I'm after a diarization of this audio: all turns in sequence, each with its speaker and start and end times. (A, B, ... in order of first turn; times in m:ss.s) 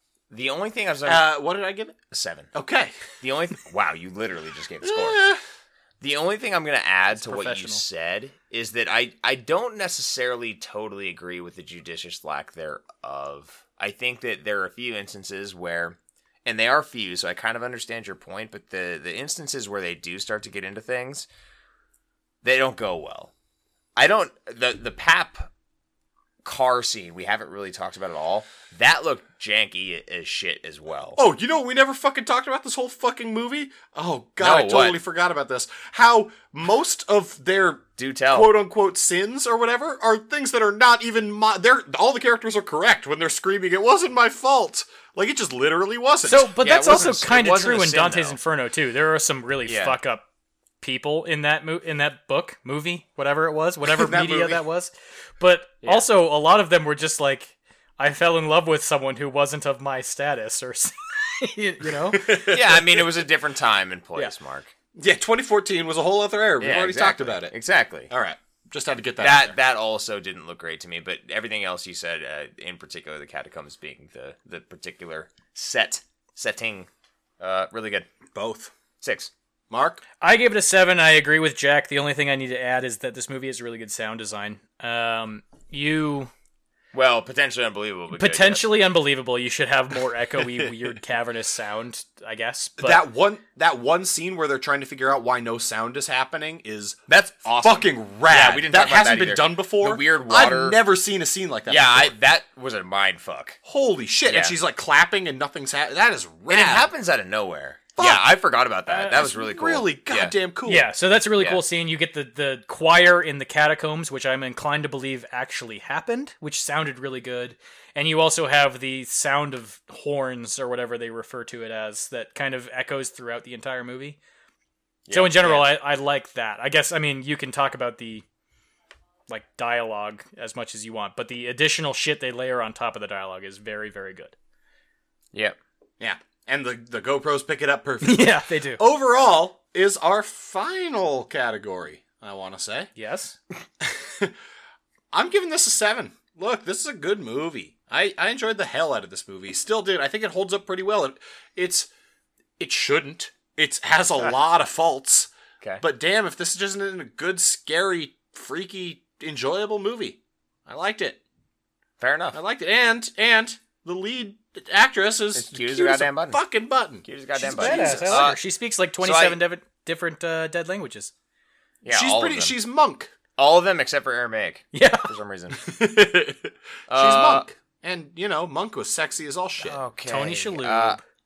0:00.3-0:01.3 A
0:01.0-0:01.9 B
0:02.1-0:02.5 A
0:02.5-0:03.0 B
0:03.2-0:05.2 A
0:04.8-0:05.4 B
0:06.0-0:21.3 A
0:07.1-0:07.8 C
0:22.4-0:23.3 A
0:24.0-0:25.5 A
0:26.4-0:31.2 A
0:31.2-0:46.5 B
0:34.4-0:35.0 A
0:38.0-0:38.5 A
0:46.2-0:50.2 C
0:46.6-0:48.4 A
0:49.7-0:50.0 A
0:50.8-1:02.3 C
0:53.8-0:54.6 B
1:02.1-1:03.0 B
1:02.4-1:04.7 A
1:05.0-1:07.5 B
1:06.6-1:08.1 A
1:08.1-1:09.6 B
1:09.2-1:16.9 A
1:17.4-1:18.1 A
1:18.3-1:18.7 B
1:19.0-1:19.3 A
1:19.7-1:20.0 B
1:20.2-1:26.3 C
1:26.9-1:28.7 A
1:28.1-1:33.0 C
1:32.8-1:42.1 B
1:37.1-1:40.8 A
1:41.7-1:43.6 A
1:43.6-1:46.9 B
1:44.3-1:44.6 A
1:46.5-1:50.3 A
1:48.0-1:48.2 B
1:49.0-1:50.9 B
1:50.6-2:04.2 C
2:05.1-2:05.7 A
2:05.1-2:08.2 C
2:09.3-2:14.3 C
2:16.0-2:22.9 B
2:18.0-2:18.8 C
2:23.0-2:23.4 C
2:23.8-2:24.3 B
2:25.1-2:31.9 B
2:32.6-2:35.3 B
2:35.8-2:41.2 B
2:42.0-2:42.4 A
2:42.3-2:48.2 B
2:45.3-2:46.4 A
2:47.0-2:48.4 A
2:47.4-2:51.1 C
2:49.0-2:49.4 A
2:51.8-2:52.5 A
2:51.9-2:53.1 B
2:53.4-2:55.7 A
2:54.7-2:55.1 C
2:55.6-2:59.8 B
2:56.9-2:57.5 A
2:59.6-3:01.0 A
3:00.1-3:01.0 C